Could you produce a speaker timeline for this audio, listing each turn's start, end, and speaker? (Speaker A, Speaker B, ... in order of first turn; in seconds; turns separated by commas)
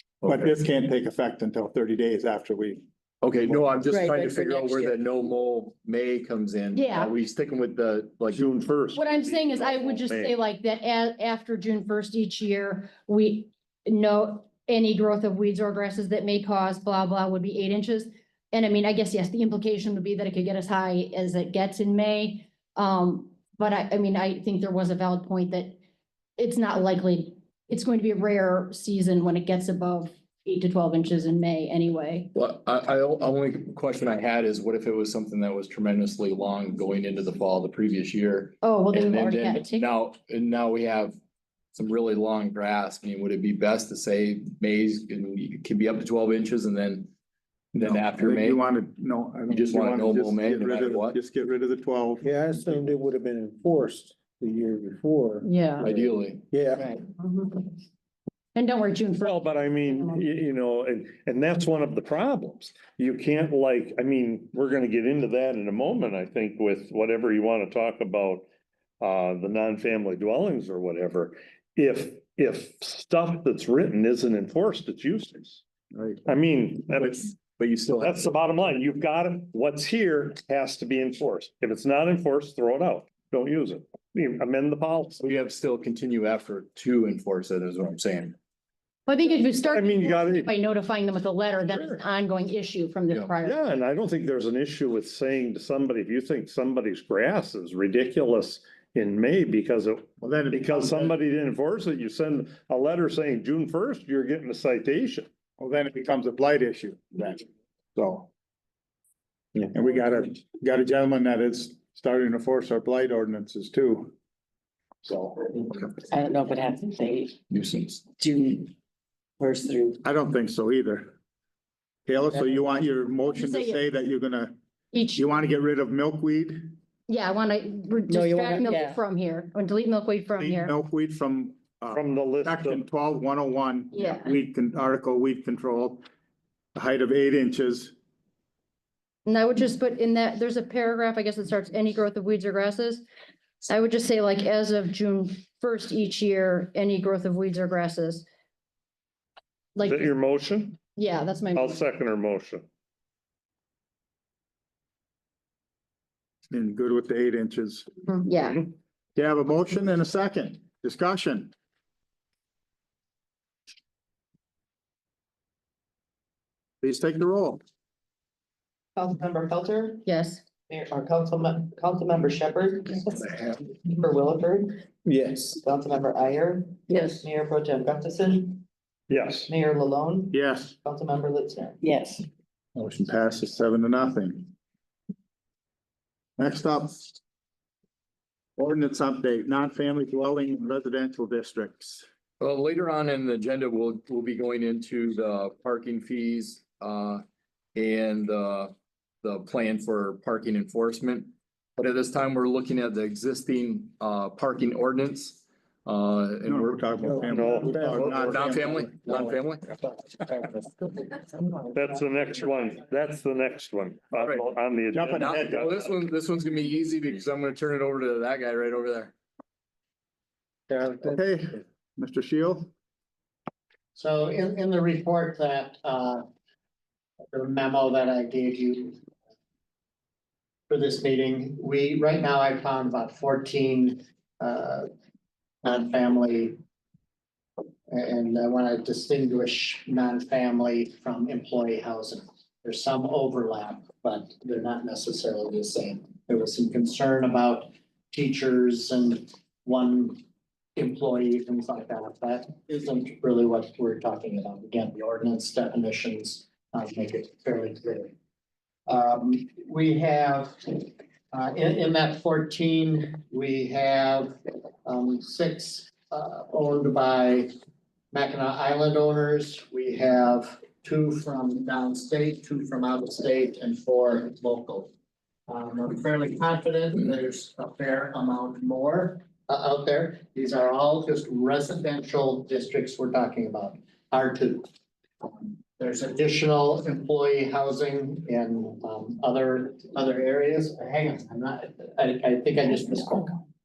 Speaker A: 0.2-2.8, Speaker B: 3.2-8.5, Speaker C: 3.9-4.2, Speaker C: 6.7-7.1, Speaker D: 8.3-10.3, Speaker C: 8.9-25.8, Speaker C: 26.4-32.3, Speaker B: 32.3-41.1, Speaker C: 38.6-39.9, Speaker B: 41.7-47.1, Speaker B: 47.7-48.6, Speaker A: 47.8-52.2, Speaker B: 49.5-51.2, Speaker E: 52.2-55.4, Speaker C: 55.4-55.9, Speaker B: 55.8-56.4, Speaker E: 56.5-56.9, Speaker C: 57.2-57.7, Speaker C: 58.5-60.2, Speaker D: 59.2-68.4, Speaker D: 69.0-75.6, Speaker A: 75.9-76.2, Speaker D: 76.3-77.3, Speaker B: 76.9-78.3, Speaker D: 78.0-85.2, Speaker B: 85.2-88.3, Speaker C: 89.1-93.6, Speaker D: 89.6-90.5, Speaker D: 91.7-92.0, Speaker D: 93.4-105.3, Speaker A: 100.2-101.1, Speaker A: 105.6-108.3, Speaker A: 109.7-114.1, Speaker A: 115.0-115.4, Speaker F: 116.1-117.3, Speaker G: 116.2-117.3, Speaker B: 117.5-118.0, Speaker F: 118.2-118.5, Speaker G: 118.2-118.7, Speaker F: 119.4-119.9, Speaker G: 119.4-120.0, Speaker A: 120.0-121.1, Speaker A: 122.1-124.5, Speaker C: 123.3-123.8, Speaker C: 124.9-125.2, Speaker A: 125.1-126.7, Speaker C: 127.1-130.7, Speaker F: 128.1-128.9, Speaker G: 128.2-129.0, Speaker A: 130.4-136.0, Speaker D: 131.9-132.8, Speaker C: 133.9-134.3, Speaker A: 136.7-137.9, Speaker C: 139.2-143.0, Speaker C: 143.7-148.2, Speaker C: 149.7-150.1, Speaker D: 149.8-150.8, Speaker C: 150.9-151.8, Speaker D: 151.5-152.7, Speaker A: 156.5-157.9, Speaker C: 158.1-158.7, Speaker A: 159.2-161.5, Speaker A: 166.8-167.6, Speaker G: 168.9-170.0, Speaker C: 170.0-170.4, Speaker G: 170.7-174.7, Speaker G: 175.4-178.6, Speaker D: 179.1-179.5, Speaker G: 179.5-180.3, Speaker A: 180.3-180.7, Speaker G: 180.8-182.2, Speaker A: 182.7-184.5, Speaker A: 186.4-187.2, Speaker A: 188.6-192.0, Speaker B: 192.4-197.2, Speaker B: 197.7-206.9, Speaker A: 206.4-208.9, Speaker D: 207.2-208.3, Speaker B: 207.9-209.7, Speaker D: 211.7-215.7, Speaker B: 214.2-214.4, Speaker A: 214.9-215.7, Speaker B: 215.2-219.1, Speaker A: 221.0-222.7, Speaker H: 223.9-226.2, Speaker H: 227.3-229.0, Speaker H: 230.7-234.8, Speaker H: 235.6-236.6, Speaker H: 237.9-250.2, Speaker H: 250.8-258.1, Speaker H: 258.9-267.5, Speaker H: 268.1-274.9, Speaker H: 275.5-284.7, Speaker H: 285.2-293.4